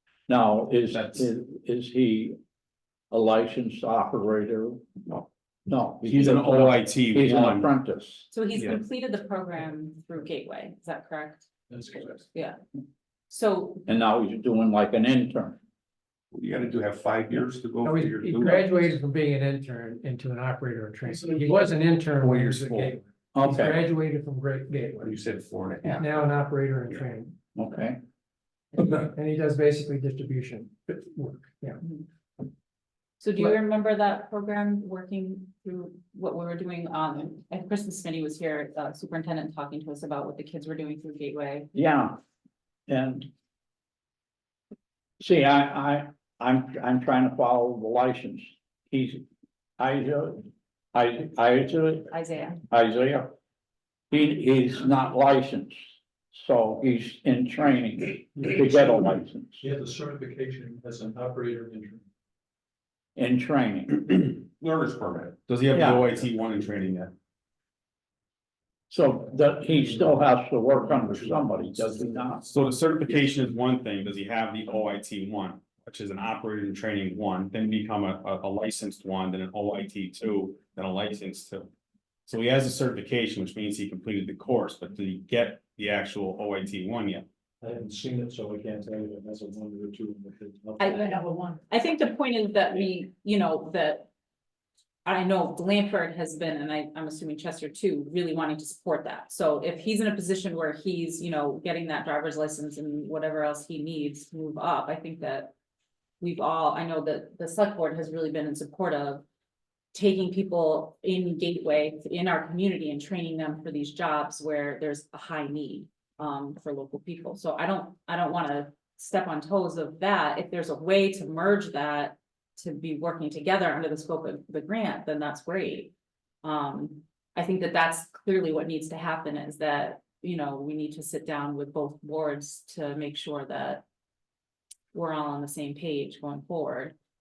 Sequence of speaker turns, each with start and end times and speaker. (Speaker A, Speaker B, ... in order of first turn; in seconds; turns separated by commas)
Speaker A: 0.3-2.4, Speaker B: 0.9-1.3, Speaker A: 3.1-4.8, Speaker A: 5.7-8.3, Speaker B: 6.0-7.7, Speaker C: 8.3-12.6, Speaker C: 13.3-13.8, Speaker A: 13.9-15.6, Speaker D: 16.3-18.8, Speaker E: 17.8-25.2, Speaker D: 22.2-22.9, Speaker A: 23.4-23.8, Speaker D: 25.0-26.0, Speaker E: 25.9-27.4, Speaker A: 27.6-28.0, Speaker E: 28.8-31.8, Speaker C: 33.2-41.7, Speaker A: 41.7-42.2, Speaker A: 42.9-43.3, Speaker A: 45.2-49.2, Speaker A: 49.8-52.1, Speaker C: 52.1-52.6, Speaker A: 52.7-53.3, Speaker A: 54.1-59.6, Speaker F: 59.6-62.0, Speaker A: 63.2-64.4, Speaker B: 65.4-67.1, Speaker A: 65.7-66.1, Speaker A: 68.9-72.4, Speaker B: 72.5-81.7, Speaker B: 82.3-87.3, Speaker F: 87.6-91.5, Speaker C: 90.8-94.1, Speaker C: 95.0-105.5, Speaker C: 106.2-109.2, Speaker C: 109.9-125.9, Speaker C: 126.4-133.8, Speaker C: 134.9-136.9